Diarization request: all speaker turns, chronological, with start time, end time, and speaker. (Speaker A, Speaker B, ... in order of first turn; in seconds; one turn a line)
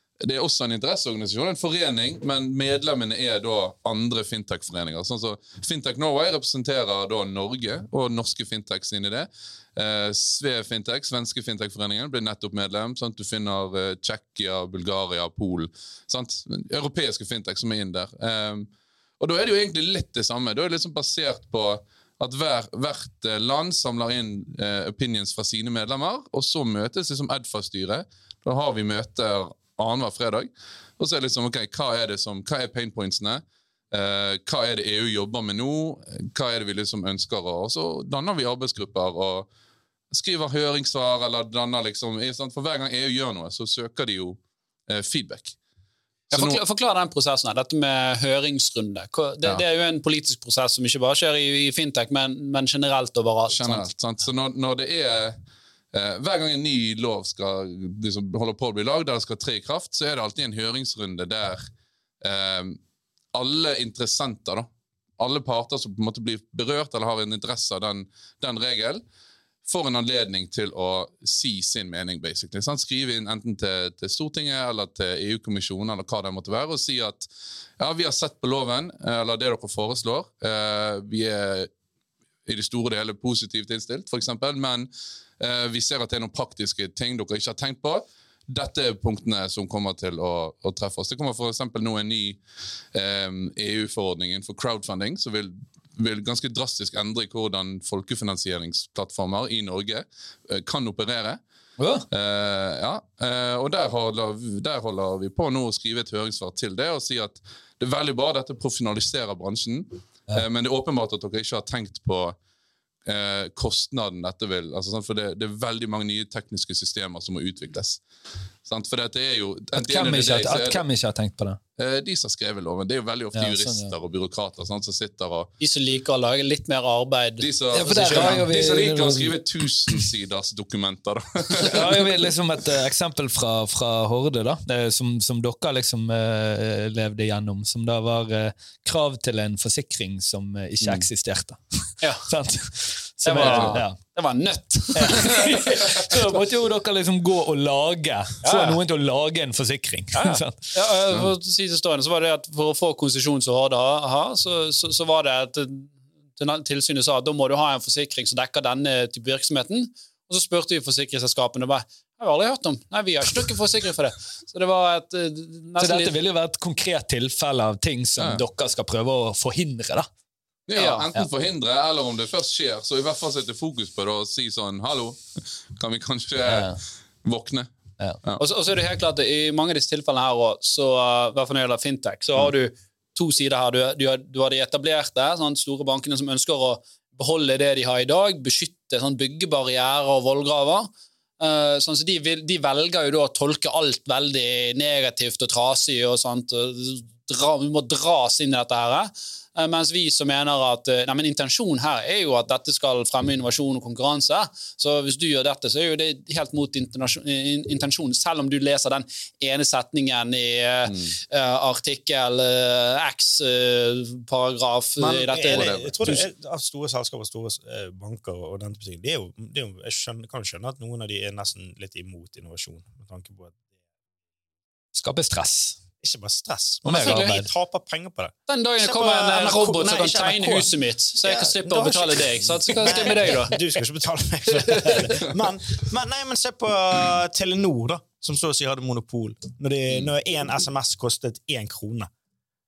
Speaker A: 0.2-39.5
Speaker A: 40.1-45.6
Speaker B: 46.3-53.9
Speaker A: 46.3-46.6
Speaker A: 53.5-55.4
Speaker A: 55.9-61.7
Speaker A: 62.2-62.8
Speaker A: 63.3-69.0
Speaker A: 69.7-77.3
Speaker A: 77.8-81.7
Speaker A: 82.5-92.4
Speaker A: 92.9-101.4
Speaker C: 101.8-102.1
Speaker A: 102.1-112.4
Speaker A: 113.1-118.0
Speaker A: 118.7-120.8
Speaker C: 119.7-121.6
Speaker A: 121.8-125.5
Speaker C: 123.3-124.0
Speaker B: 125.6-128.4
Speaker A: 127.4-132.0
Speaker C: 127.7-129.4
Speaker C: 131.6-144.0
Speaker A: 140.8-141.1
Speaker B: 143.2-146.0
Speaker A: 143.4-143.8
Speaker C: 145.0-150.6
Speaker B: 148.4-148.8
Speaker B: 150.1-166.1
Speaker C: 165.8-170.1
Speaker A: 168.2-168.4
Speaker A: 170.7-177.7
Speaker B: 170.8-171.1
Speaker C: 176.5-176.8
Speaker B: 178.4-216.2
Speaker A: 210.9-211.1
Speaker D: 215.0-223.6
Speaker A: 215.5-216.2
Speaker C: 224.9-225.8
Speaker D: 226.0-242.1
Speaker C: 226.8-227.5
Speaker B: 226.9-227.4
Speaker B: 228.5-233.6